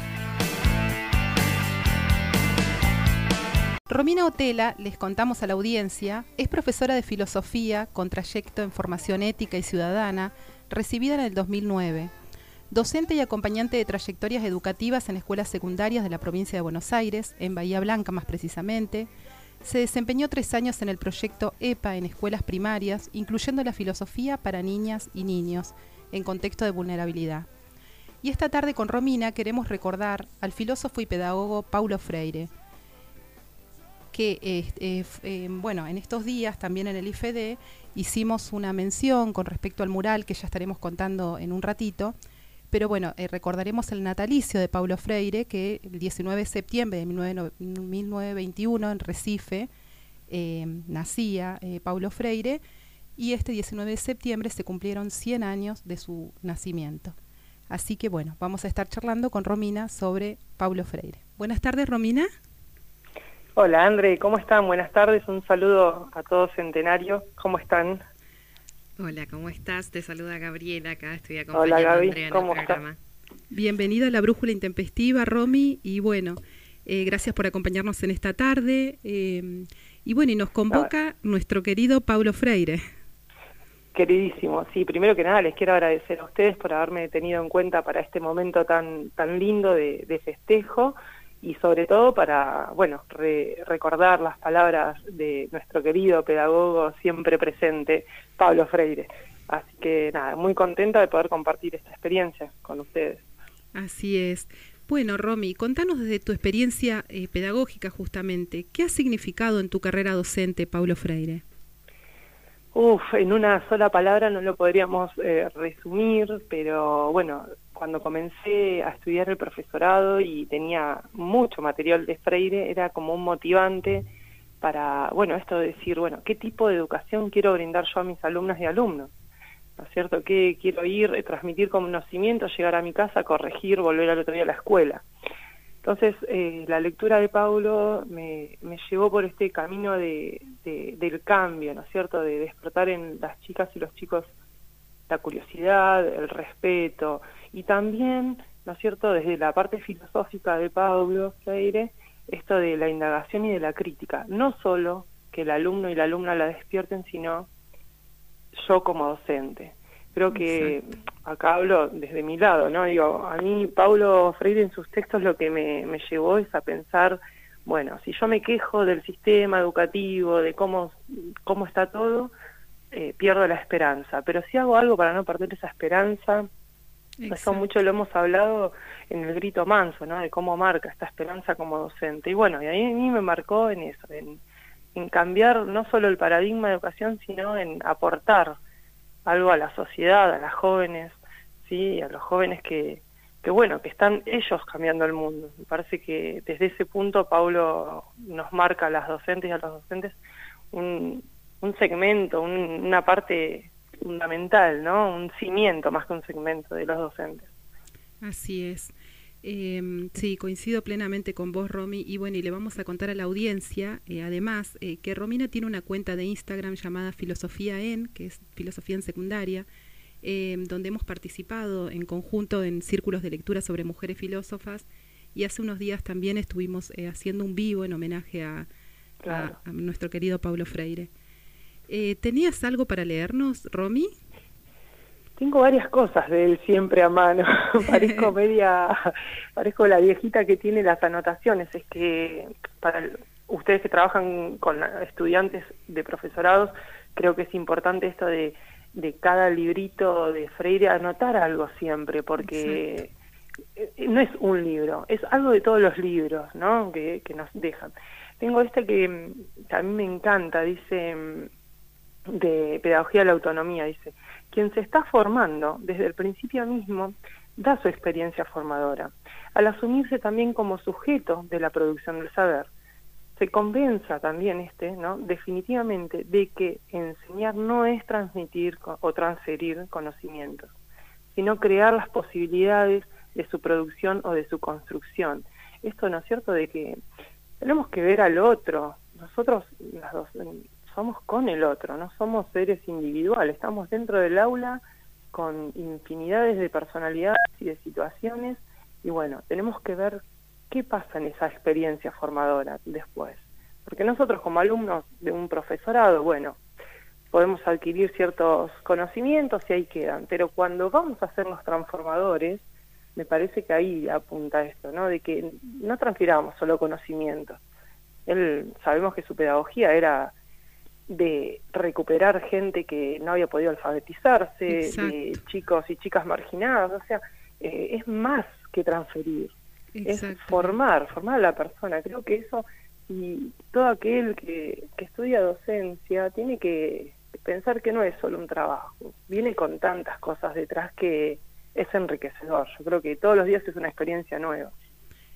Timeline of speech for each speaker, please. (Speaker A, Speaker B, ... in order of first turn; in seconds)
Speaker A: 3.9-12.1, 12.7-19.1, 19.6-27.5, 28.2-32.5, 34.1-42.1, 42.7-49.7, 50.3-52.6, 53.2-57.1, 57.7-62.3, 73.5-82.8, 103.7-111.4, 160.3-160.8, 177.2-177.7, 208.2-219.7, 220.2-228.7, 229.3-231.1, 231.9-234.1, 237.9-238.3, 252.4-252.8, 324.7-325.4, 329.9-330.8
Speaker B: 63.6-68.0, 71.5-72.8, 83.9-103.2, 112.7-124.1, 124.6-129.1, 129.8-135.1, 135.8-144.3, 145.1-157.5, 158.5-172.3, 172.9-176.5, 177.3-184.4, 184.9-188.6, 189.3-200.2, 200.7-207.5, 229.2-229.6, 235.4-253.1, 253.8-261.5, 262.3-272.7, 273.4-280.7, 281.3-287.0, 287.6-294.8, 295.3-306.6, 307.3-317.6, 318.3-320.3, 321.1-344.7
Speaker C: 69.0-73.0